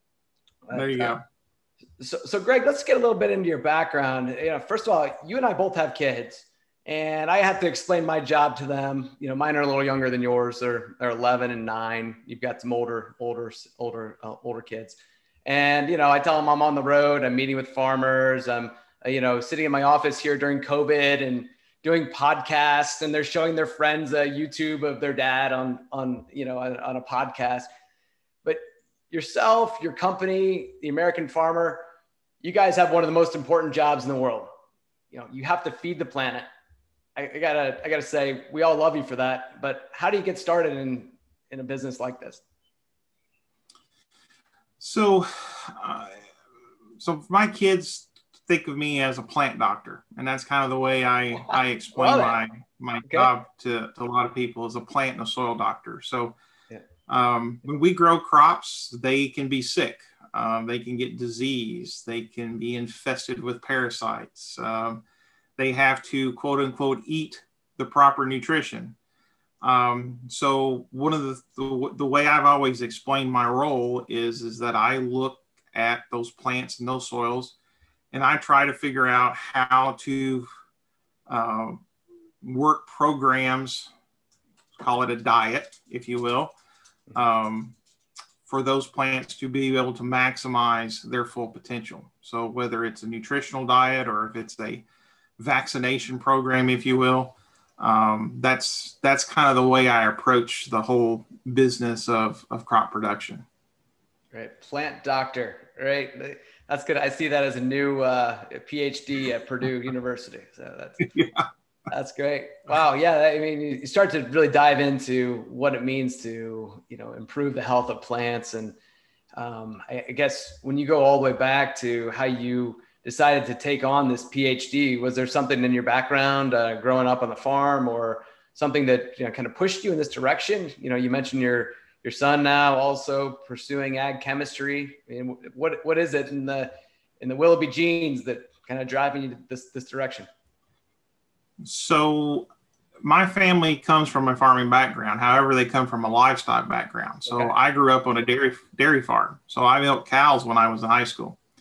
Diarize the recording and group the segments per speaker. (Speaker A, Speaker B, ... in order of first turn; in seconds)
Speaker A: 0.7-1.2, 2.0-27.7, 28.4-31.8, 32.4-34.5, 35.1-36.5, 37.1-42.4, 51.9-52.4, 53.0-53.3, 104.3-111.1, 111.9-118.8, 119.3-140.3, 147.3-147.5
Speaker B: 0.7-1.2, 44.8-46.2, 47.0-56.4, 57.1-65.0, 65.6-69.0, 69.6-77.5, 78.1-80.5, 81.3-81.8, 82.4-83.9, 84.7-86.5, 87.1-87.7, 88.5-94.8, 95.4-103.5, 111.0-111.4, 141.6-142.5, 143.0-151.4